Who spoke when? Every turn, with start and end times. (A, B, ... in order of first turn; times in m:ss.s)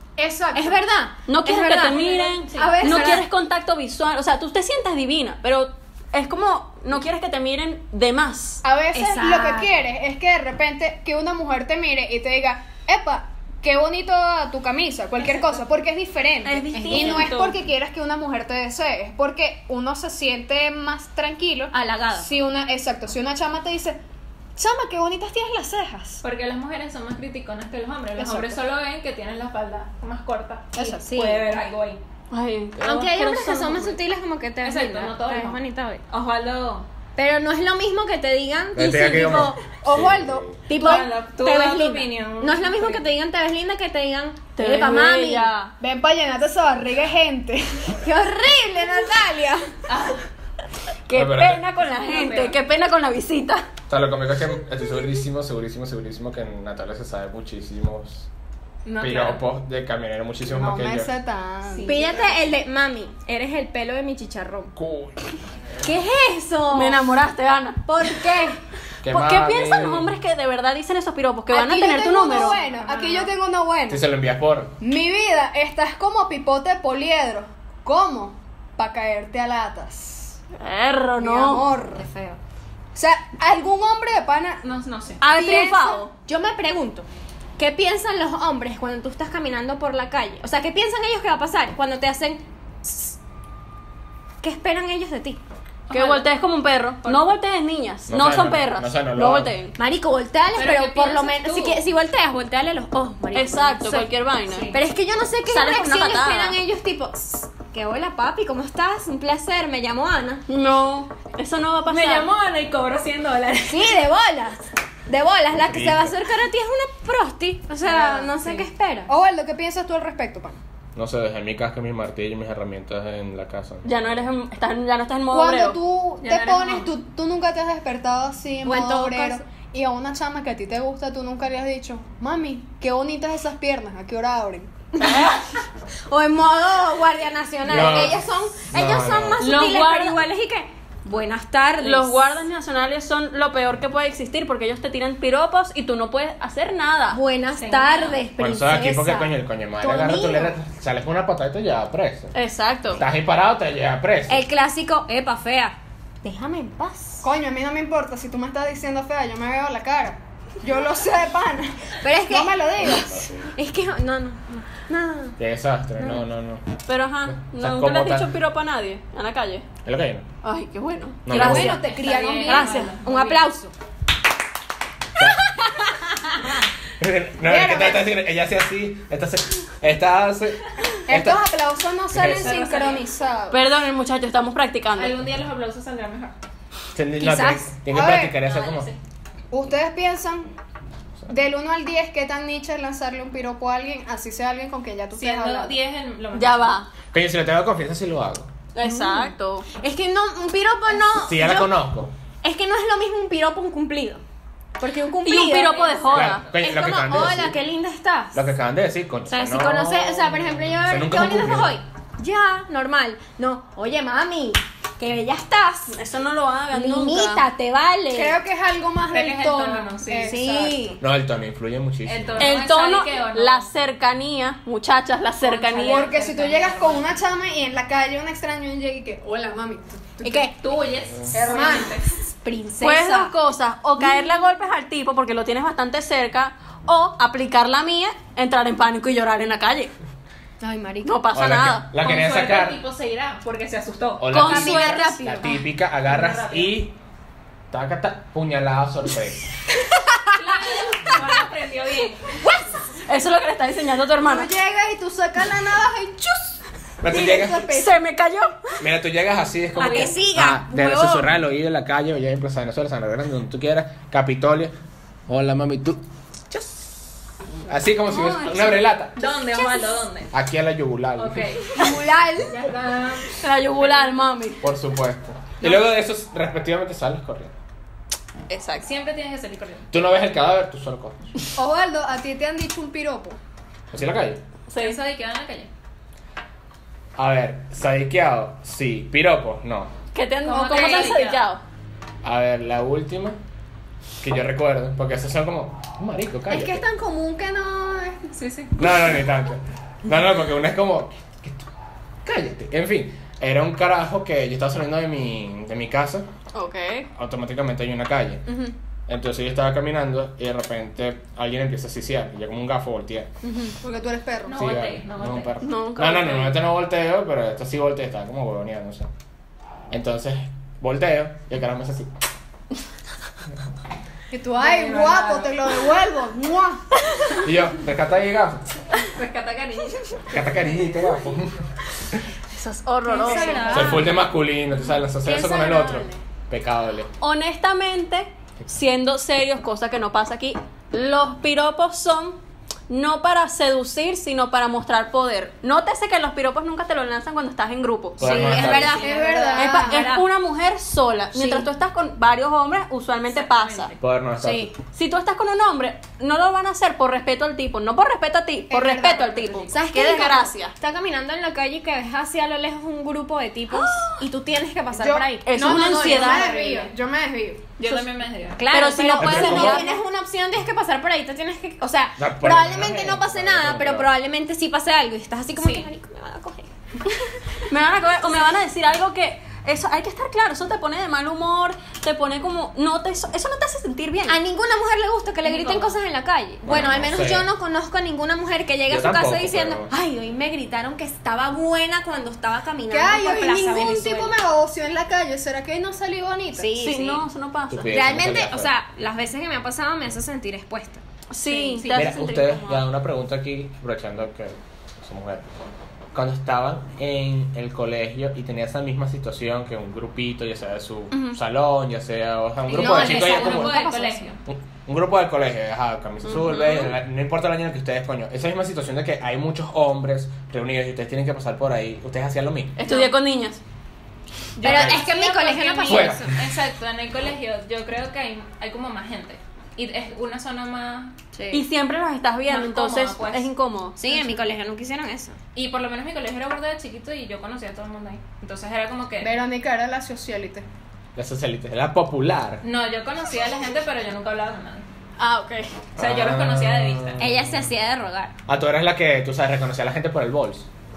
0:00.2-0:00.8 A
0:00.5-0:03.2 B
0:01.2-0:08.6 C
0:01.7-0:02.8 D
0:02.6-0:03.2 A
0:08.6-0:24.0 A
0:08.9-0:09.7 B
0:16.4-0:17.6 C
0:16.7-0:17.4 B
0:21.7-0:22.3 B
0:24.6-0:26.2 A
0:26.2-0:32.0 D
0:28.2-0:28.6 A
0:30.7-0:31.0 A
0:30.8-0:31.5 B
0:32.3-0:33.9 C
0:32.8-0:36.0 B
0:34.6-0:36.9 D
0:37.2-0:39.6 B
0:38.7-0:40.6 E
0:39.8-0:40.5 A
0:40.7-0:45.5 B
0:40.8-0:43.0 D
0:44.6-0:45.7 C
0:45.8-0:48.0 A
0:48.0-0:49.7 B
0:49.9-0:50.2 D
0:51.1-0:53.6 C
0:51.1-0:51.6 E
0:51.8-0:52.6 D
0:53.9-0:58.3 E
0:58.8-0:59.4 D
0:59.0-1:01.2 E
1:00.4-1:02.0 A
1:01.6-1:02.4 D
1:01.8-1:04.7 B
1:04.7-1:05.2 E
1:05.8-1:07.1 B
1:06.7-1:08.2 C
1:07.9-1:08.6 B
1:09.0-1:10.1 E
1:09.0-1:12.6 C
1:11.5-1:14.0 A
1:12.4-1:13.3 D
1:13.9-1:14.7 E
1:14.8-1:20.4 A
1:20.6-1:21.7 C
1:21.2-1:22.0 A
1:22.0-1:22.4 B
1:22.9-1:24.6 A
1:24.6-1:25.2 D
1:25.2-1:26.1 C
1:25.2-1:26.0 A
1:25.3-1:27.0 B
1:27.6-1:33.2 B
1:34.4-1:35.4 B
1:35.9-1:36.3 D
1:35.9-1:39.8 C
1:37.0-1:37.3 D
1:38.1-1:39.5 E
1:39.8-1:44.1 B
1:40.6-1:41.8 D
1:43.3-1:44.7 C
1:44.5-1:44.8 D
1:44.7-1:50.4 B
1:45.4-1:46.6 C
1:50.5-1:52.3 C
1:51.8-1:53.9 D
1:53.7-1:59.1 B
1:55.6-1:56.1 E
1:57.8-1:58.7 D
1:59.1-2:00.6 A
2:00.9-2:04.3 E
2:03.8-2:05.8 C
2:05.3-2:14.7 A
2:06.2-2:06.9 D
2:08.6-2:09.4 B
2:15.0-2:15.4 B
2:15.0-2:15.4 C
2:16.1-2:22.3 B
2:17.7-2:19.4 E
2:19.4-2:20.2 C
2:21.8-2:27.2 C
2:27.1-2:30.6 B
2:27.6-2:28.2 D
2:28.4-2:32.3 E
2:32.3-2:33.0 C
2:32.9-2:34.4 E
2:34.3-2:37.2 B
2:37.2-2:43.2 A
2:42.0-2:45.4 B
2:42.8-2:43.5 E
2:45.4-2:46.7 E
2:46.8-2:49.7 C
2:47.2-2:48.3 E
2:49.8-2:50.3 E
2:50.4-2:53.0 C
2:51.2-2:51.8 E
2:51.3-2:52.8 A
2:51.7-2:53.5 D
2:52.5-2:53.7 B
2:55.2-2:55.6 E
2:57.0-3:01.4 E
2:57.4-2:58.1 A
3:01.1-3:03.6 A
3:02.1-3:02.6 E
3:02.4-3:03.1 D
3:03.5-3:05.2 C
3:04.9-3:06.3 D
3:06.9-3:08.9 E
3:07.2-3:07.7 B
3:07.9-3:08.4 A
3:08.4-3:09.0 D
3:09.5-3:10.5 A
3:11.3-3:15.8 A
3:15.1-3:16.8 D
3:16.3-3:16.9 C
3:17.1-3:18.5 E
3:18.7-3:19.7 C
3:18.8-3:21.8 B
3:21.2-3:22.1 E
3:22.4-3:24.2 B
3:24.8-3:28.4 B
3:25.2-3:26.5 C
3:25.5-3:26.5 D
3:26.1-3:27.6 E
3:28.3-3:31.8 E
3:29.3-3:36.0 B
3:35.9-3:37.4 C
3:36.7-3:38.4 B
3:38.1-3:41.0 A
3:39.1-3:40.4 D
3:40.2-3:41.0 B
3:41.0-3:42.6 E
3:42.0-3:43.7 D
3:42.4-3:46.1 C
3:45.4-3:47.2 D
3:45.8-3:50.5 A
3:50.2-3:50.6 B
3:50.6-3:52.3 D
3:51.3-3:52.0 A
3:52.4-3:53.3 B
3:52.8-3:59.9 C
3:54.0-3:54.2 B
4:00.6-4:01.2 B
4:01.0-4:01.9 C
4:01.3-4:02.8 E
4:02.0-4:04.4 D
4:04.2-4:07.0 E
4:04.3-4:05.4 C
4:04.4-4:05.6 B
4:06.0-4:06.8 D
4:07.7-4:09.4 E
4:10.4-4:12.2 D
4:13.0-4:14.5 C
4:14.2-4:18.0 A
4:17.0-4:17.7 E
4:17.6-4:18.8 C
4:18.8-4:24.7 E
4:19.8-4:21.2 B
4:19.8-4:20.1 D
4:25.3-4:26.0 E
4:27.7-4:29.1 E
4:28.1-4:28.8 B
4:29.1-4:30.3 D
4:29.5-4:29.9 B
4:30.3-4:31.5 E
4:31.2-4:31.9 D
4:31.7-4:32.6 B
4:32.4-4:34.2 D
4:33.4-4:34.6 C
4:34.6-4:37.5 E
4:35.6-4:35.9 D
4:38.5-4:38.9 C
4:38.8-4:39.9 D
4:39.9-4:41.3 E
4:41.5-4:43.4 A
4:43.9-4:44.4 E
4:44.7-4:45.0 C
4:44.7-4:45.7 D
4:47.2-4:49.9 E
4:50.1-4:51.6 C
4:50.4-4:51.4 D
4:52.2-4:53.4 E
4:54.2-4:56.8 E
4:56.5-4:58.3 A
4:58.3-4:58.8 D
4:58.8-5:01.6 E
5:02.2-5:06.3 E
5:06.5-5:07.1 C
5:07.1-5:08.5 E
5:09.1-5:13.3 E
5:13.8-5:14.8 A
5:14.4-5:16.5 D
5:14.6-5:19.1 E
5:15.6-5:16.4 C
5:19.9-5:22.1 E
5:24.3-5:26.8 A
5:24.6-5:25.7 D
5:27.4-5:28.6 E
5:29.1-5:30.4 D
5:30.3-5:31.6 E
5:32.5-5:33.9 C
5:33.0-5:34.1 B
5:33.2-5:33.9 A
5:33.3-5:33.9 D
5:33.7-5:37.1 E
5:35.2-5:36.2 B
5:37.2-5:48.4 C
5:48.2-5:49.0 E
5:48.2-5:50.3 B
5:48.2-5:49.7 D
5:48.7-5:50.1 A
5:49.6-5:53.9 C
5:51.3-5:51.7 B
5:53.3-5:54.0 D
5:54.0-5:54.7 E
5:54.4-5:54.8 B
5:54.8-6:00.7 C
5:58.7-5:59.7 A
5:59.7-6:06.5 B
6:03.7-6:04.2 C
6:05.0-6:07.7 A
6:05.4-6:06.6 C
6:05.7-6:06.9 D
6:07.8-6:08.6 D
6:08.6-6:17.1 B
6:08.7-6:09.9 C
6:09.2-6:09.9 E
6:12.2-6:14.1 E
6:15.6-6:15.9 D
6:17.7-6:24.4 C
6:24.3-6:34.3 B
6:25.4-6:26.0 D
6:26.6-6:27.5 E
6:28.9-6:29.9 E
6:32.9-6:36.7 A
6:36.5-6:37.2 B
6:36.8-6:37.9 C
6:37.7-6:38.7 E
6:37.9-6:42.0 B
6:41.3-6:42.8 C
6:41.5-6:42.1 D
6:41.9-6:45.5 E
6:46.1-6:53.8 E
6:51.1-6:51.4 B
6:52.7-6:54.4 D
6:52.7-6:54.3 B
6:54.4-7:02.8 E
6:56.3-6:56.9 C
7:02.8-7:03.6 C
7:02.8-7:03.1 D
7:04.6-7:11.2 D
7:04.6-7:06.3 B
7:04.6-7:05.0 E
7:05.8-7:06.4 E
7:11.3-7:11.6 B
7:11.5-7:14.0 C
7:12.4-7:13.5 D
7:14.0-7:15.4 B
7:15.5-7:19.3 D
7:19.2-7:20.6 A
7:21.2-7:22.6 E
7:22.6-7:24.9 D
7:25.2-7:25.8 C
7:26.0-7:27.2 D
7:26.0-7:27.7 E
7:27.2-7:28.3 B
7:28.5-7:30.7 E